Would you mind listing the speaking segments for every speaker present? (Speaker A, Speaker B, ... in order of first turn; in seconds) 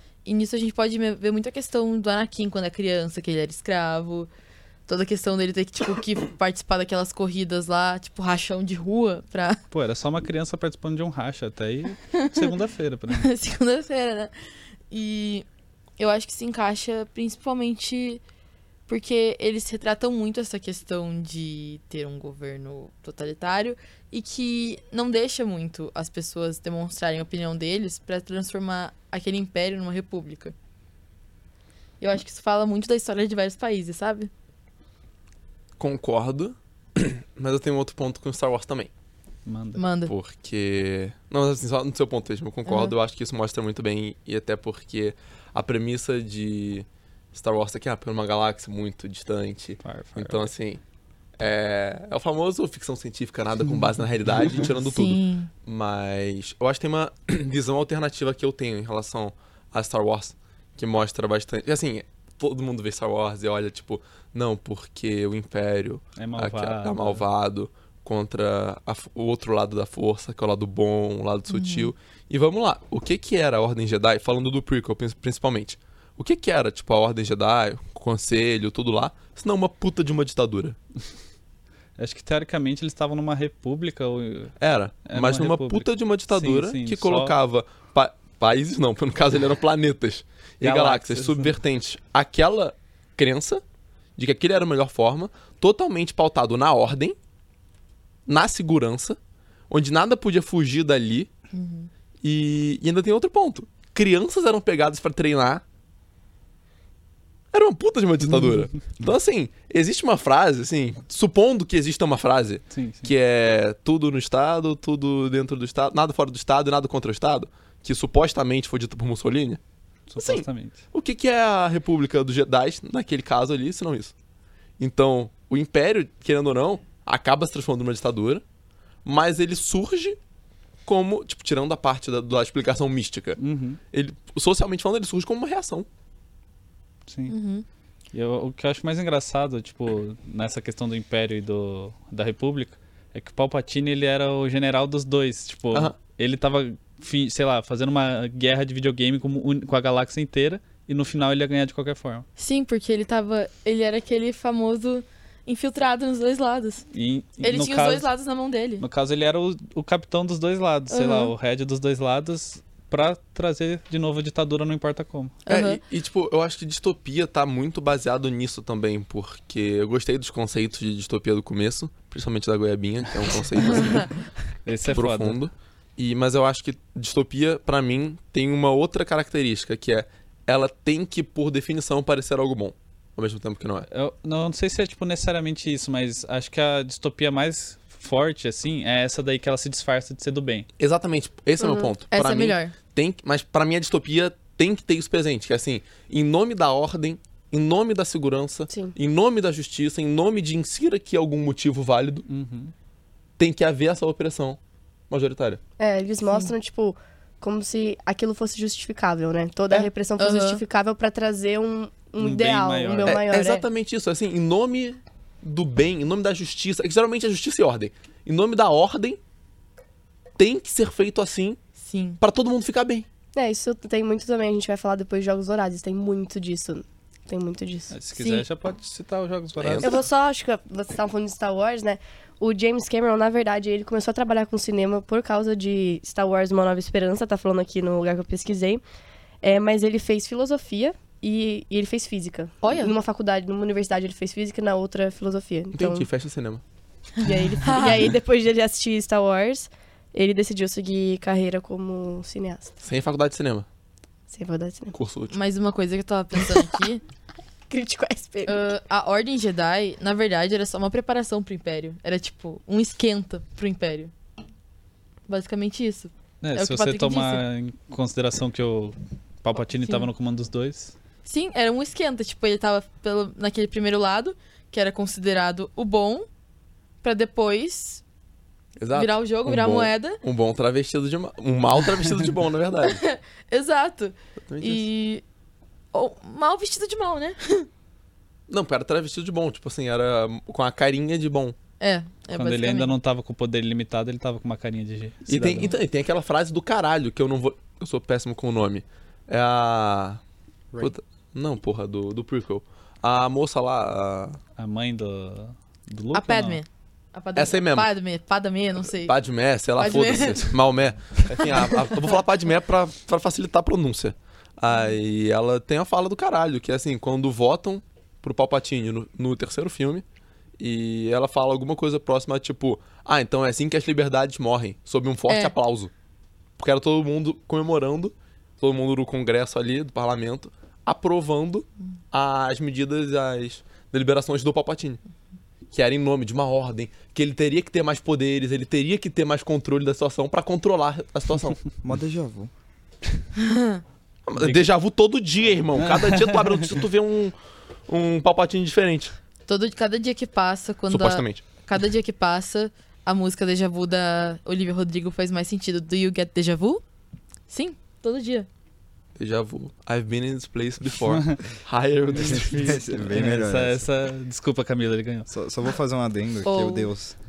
Speaker A: 0.2-4.3, 4.9-9.6, 12.1-12.5, 13.1-14.3, 14.9-15.4, 16.0-18.2, 18.9-30.5, 32.0-34.3, 39.8-40.1, 42.7-42.9, 54.8-55.5, 71.5-71.9, 101.5-101.9, 137.3-137.6, 152.4-156.8, 157.4-158.8, 160.9-161.3, 165.4-165.8, 192.1-192.7, 209.7-210.6, 221.8-222.2, 228.2-228.4, 242.6-242.9, 247.6-248.0, 255.3-257.0, 258.4-264.1, 265.3-267.4, 269.8-270.1, 271.2-276.3, 277.0-278.0, 278.9-280.2, 282.8-285.2, 285.9-287.7, 291.8-292.9, 306.1-309.1, 309.8-310.5, 325.3-325.5, 343.4-343.8, 349.5-356.8, 357.5-358.5, 366.4-366.9
Speaker B: 9.7-13.3, 39.5-39.8, 49.8-50.5, 66.2-67.2, 82.0-84.5, 85.0-87.3, 90.6-91.6, 112.7-113.1, 120.1-120.8, 133.4-133.8, 137.1-137.3, 138.1-152.2, 156.9-158.1, 158.8-165.3, 174.7-175.4, 183.9-190.7, 202.3-202.7, 212.2-213.2, 227.9-230.0, 266.4-270.9, 292.3-295.7, 304.6-306.6, 344.4-344.6, 345.8-346.5, 361.1-361.4, 362.1-365.3
Speaker C: 35.8-38.9, 40.0-50.8, 51.4-80.8, 84.6-93.6, 94.2-97.2, 98.3-99.2, 99.7-101.3, 102.2-105.6, 107.5-119.6, 120.2-124.1, 124.8-128.4, 129.0-130.2, 130.8-133.4, 133.9-135.9, 145.7-146.0, 165.5-174.1, 174.8-183.9, 190.8-202.3, 203.4-204.6, 205.1-205.6, 213.1-219.2, 220.4-221.6, 222.2-223.1, 229.6-230.0, 245.7-246.6, 252.8-253.7, 254.9-255.3, 278.8-283.0, 284.5-284.9, 288.5-291.5, 295.3-300.2, 300.8-304.4, 307.3-307.9, 309.0-320.0, 320.6-325.9, 326.6-335.0, 335.7-341.6, 344.3-347.3, 347.9-349.1, 350.9-351.4, 359.2-362.8
Speaker D: 191.6-191.9, 205.8-213.6, 223.3-227.9, 229.8-238.8, 239.4-246.1, 247.2-252.7, 254.3-254.9, 257.7-258.6
Speaker E: 341.8-342.5, 362.2-363.9, 365.3-367.1